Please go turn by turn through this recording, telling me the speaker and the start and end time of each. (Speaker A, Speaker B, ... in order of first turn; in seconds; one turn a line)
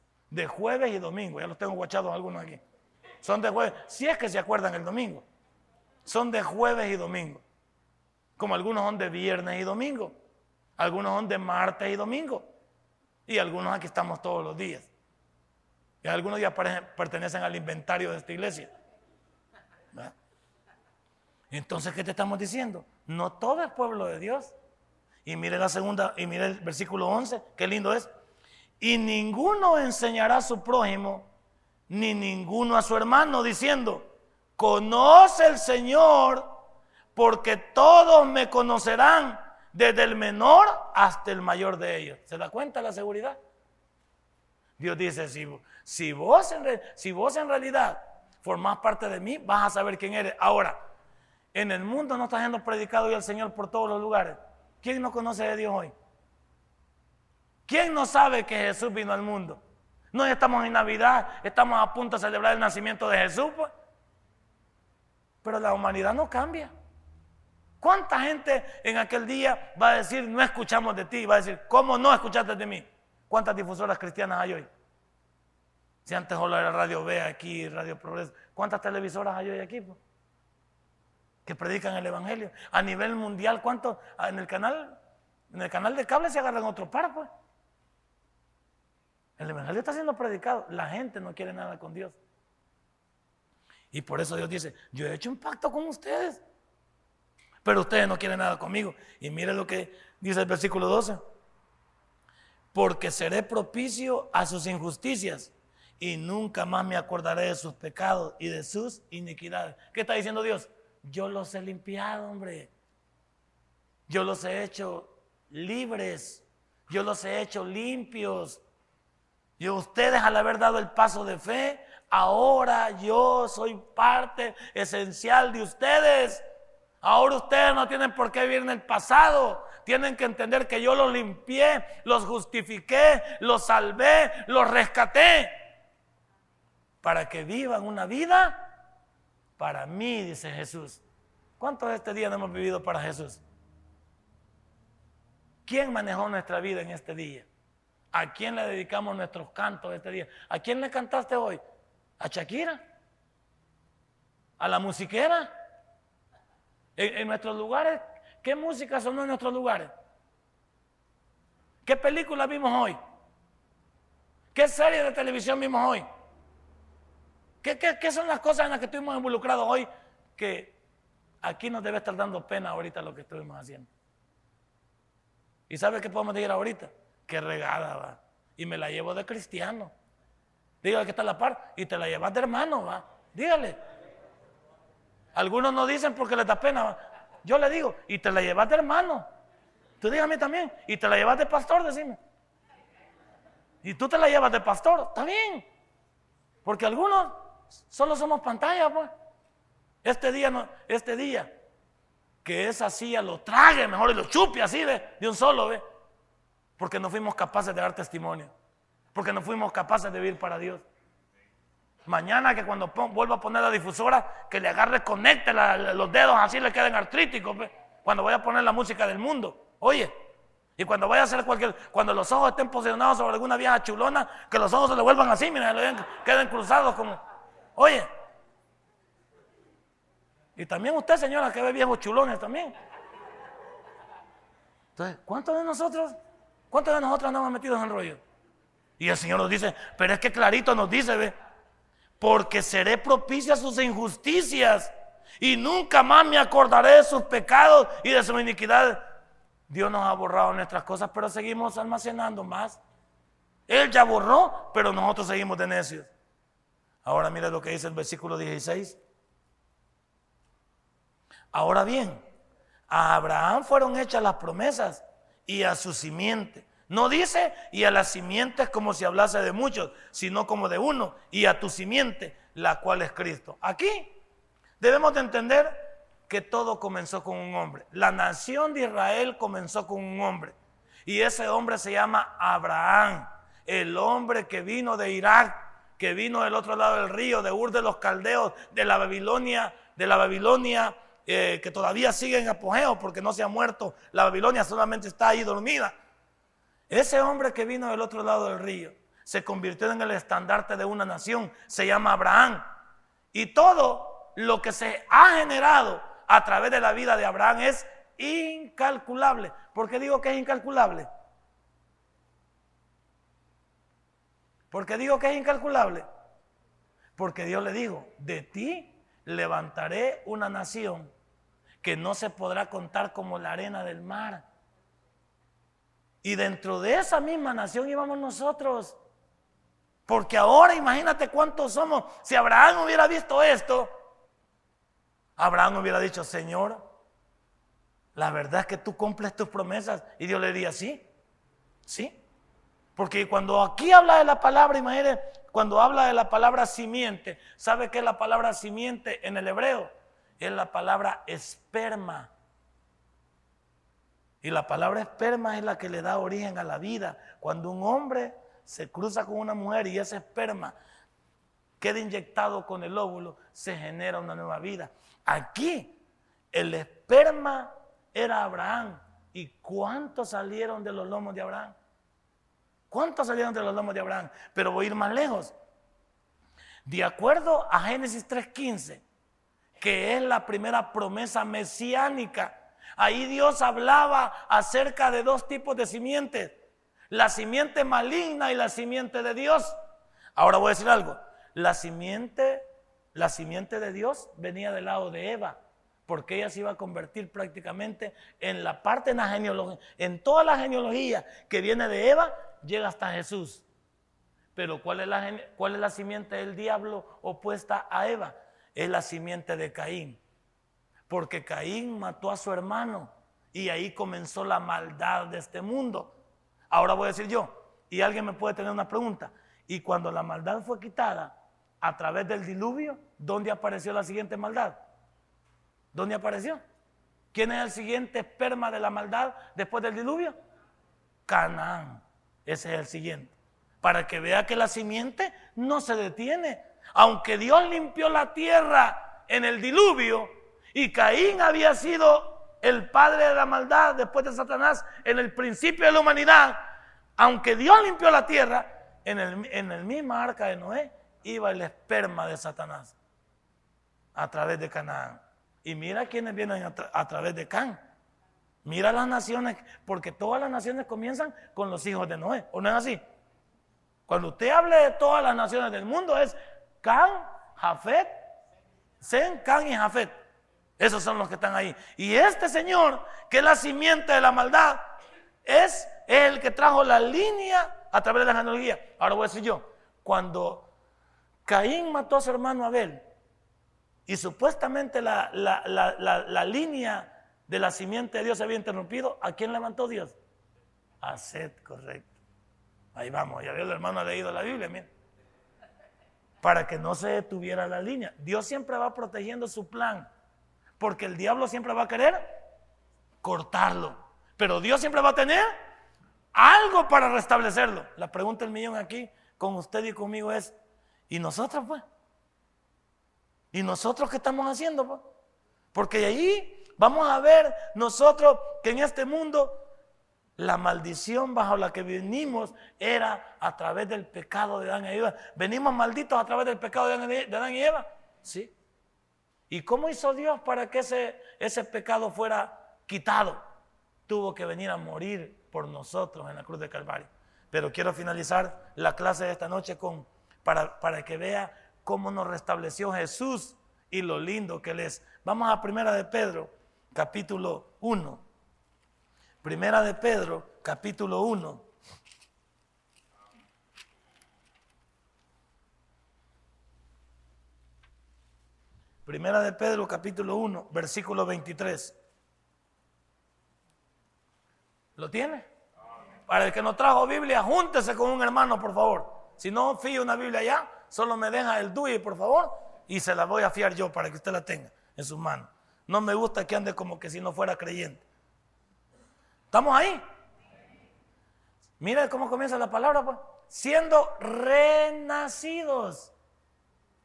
Speaker A: 0.3-2.6
Speaker A: 3.2-5.2
Speaker A: 6.0-7.4
Speaker A: 8.4-10.2
Speaker A: 10.8-12.5
Speaker A: 13.3-14.9
Speaker A: 16.0-18.7
Speaker A: 21.5-24.5
Speaker A: 25.2-28.1
Speaker A: 28.8-31.3
Speaker A: 31.9-36.6
Speaker A: 37.1-43.4
Speaker A: 44.8-50.8
Speaker A: 51.5-55.9
Speaker A: 57.7-59.6
Speaker A: 60.1-63.7
Speaker A: 65.4-66.7
Speaker A: 67.8-74.7
Speaker A: 76.0-80.0
Speaker A: 81.5-85.0
Speaker A: 85.5-87.3
Speaker A: 89.4-92.2
Speaker A: 93.9-96.4
Speaker A: 97.6-101.2
Speaker A: 102.7-112.7
Speaker A: 114.1-118.6
Speaker A: 119.6-126.4
Speaker A: 127.0-135.6
Speaker A: 137.0-138.7
Speaker A: 139.6-141.0
Speaker A: 141.6-143.4
Speaker A: 145.7-147.5
Speaker A: 148.1-151.6
Speaker A: 152.2-152.8
Speaker A: 154.6-155.5
Speaker A: 157.0-159.9
Speaker A: 161.8-163.0
Speaker A: 164.5-166.1
Speaker A: 167.6-170.8
Speaker A: 171.4-173.9
Speaker A: 175.7-179.9
Speaker A: 180.8-183.8
Speaker A: 185.3-189.3
Speaker A: 190.0-192.2
Speaker A: 193.8-195.7
Speaker A: 196.7-199.1
Speaker A: 200.0-201.5
Speaker A: 202.4-205.8
Speaker A: 206.8-208.5
Speaker A: 209.1-210.8
Speaker A: 212.1-220.1
Speaker A: 220.8-227.2
Speaker A: 227.8-228.1
Speaker A: 230.6-232.7
Speaker A: 235.0-236.2
Speaker A: 236.7-238.2
Speaker A: 239.0-241.3
Speaker A: 242.2-249.1
Speaker A: 249.7-252.8
Speaker A: 253.7-256.1
Speaker A: 257.0-259.0
Speaker A: 261.5-262.2
Speaker A: 262.9-274.2
Speaker A: 274.8-295.9
Speaker A: 296.9-302.6
Speaker A: 303.3-311.1
Speaker A: 314.7-316.1
Speaker A: 317.2-321.1
Speaker A: 321.8-324.4
Speaker A: 326.2-329.0
Speaker A: 330.1-333.9
Speaker A: 335.4-336.8
Speaker A: 338.1-341.0
Speaker A: 341.9-342.2
Speaker A: 343.0-352.3
Speaker A: 354.4-360.8
Speaker A: 361.8-365.9
Speaker A: 366.5-371.8
Speaker A: 372.9-375.5
Speaker A: 376.9-379.0
Speaker A: 379.8-386.6
Speaker A: 387.1-389.8
Speaker A: 390.4-403.6
Speaker A: 404.6-410.2
Speaker A: 411.1-416.1
Speaker A: 416.7-424.8
Speaker A: 425.9-426.6
Speaker A: 427.3-430.4
Speaker A: 431.3-446.6
Speaker A: 447.2-453.0
Speaker A: 454.1-457.8
Speaker A: 458.6-463.0
Speaker A: 464.1-468.2
Speaker A: 469.0-470.1
Speaker A: 470.8-474.9
Speaker A: 475.4-480.7
Speaker A: 481.5-483.0
Speaker A: 484.1-490.2
Speaker A: 491.0-492.2
Speaker A: 492.9-494.9
Speaker A: 496.4-500.1
Speaker A: 500.8-502.4
Speaker A: 503.2-505.5
Speaker A: 506.3-510.5
Speaker A: 511.1-511.8
Speaker A: 513.5-515.0
Speaker A: 515.7-519.6
Speaker A: 520.4-528.5
Speaker A: 529.5-533.4
Speaker A: 534.1-548.2
Speaker A: 549.4-551.6
Speaker A: 559.0-562.0
Speaker A: 565.0-565.5
Speaker A: 566.3-578.0
Speaker A: 579.5-580.0
Speaker A: 581.8-586.1